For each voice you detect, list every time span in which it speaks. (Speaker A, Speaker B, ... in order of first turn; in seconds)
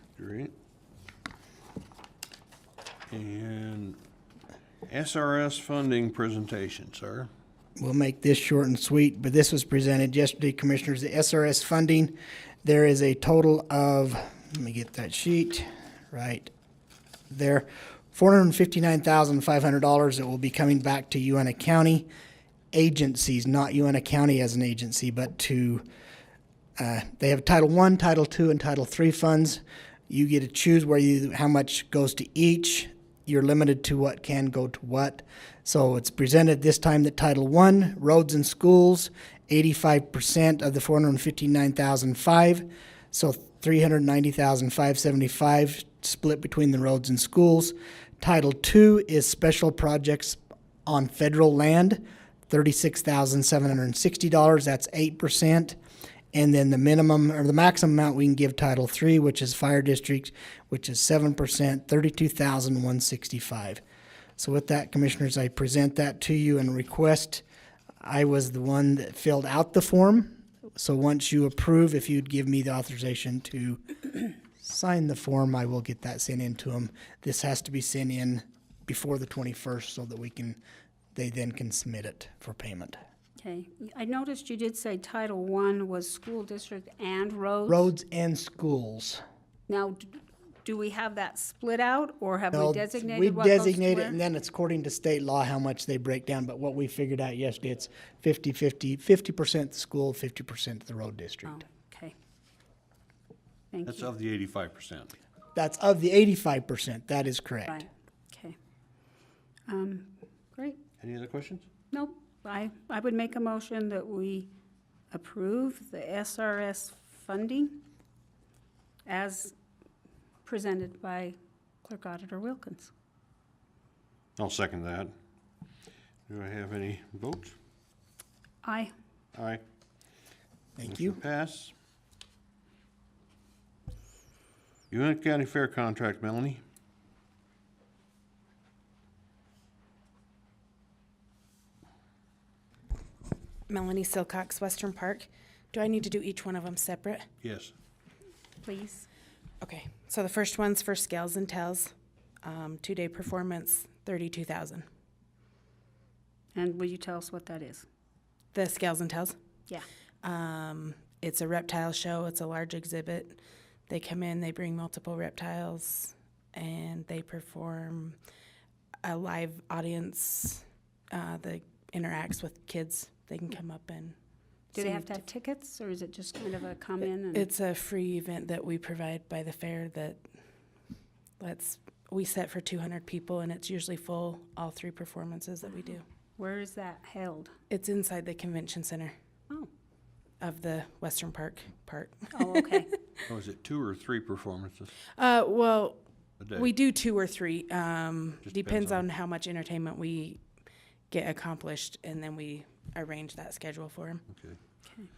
Speaker A: 0.2-0.5, 3.1-4.0, 4.8-7.3, 103.9-105.1, 111.0-111.7, 124.4-125.1, 126.3-127.5, 129.3-129.6, 130.8-131.7, 134.9-136.6, 147.4-147.7, 193.3-194.9, 196.4-196.7, 198.4-199.0, 204.3-204.6
Speaker B: 7.8-16.5, 17.3-22.1, 22.7-25.9, 26.8-55.8, 56.3-63.8, 64.4-67.4, 68.0-73.8, 74.6-80.6, 81.1-83.0, 87.7-89.2, 92.5-101.6, 105.5-107.9, 130.8-131.2
Speaker C: 83.4-87.9, 89.7-94.2, 101.5-102.1, 103.7-104.1, 107.7-108.5, 109.7-110.8, 111.9-114.5, 115.1-117.8, 119.1-119.5, 120.5-122.9, 128.6-128.9, 148.6-149.1, 156.5-157.8, 174.7-177.5, 186.4-187.5, 192.3-192.9
Speaker D: 143.7-147.2, 149.6-151.9, 152.4-154.8, 158.5-159.3, 160.2-168.2, 169.0-174.2, 174.7-175.2, 177.3-180.2, 181.4-186.0, 187.7-189.1, 190.4-192.8, 195.2-196.0, 196.5-200.4, 201.1-204.2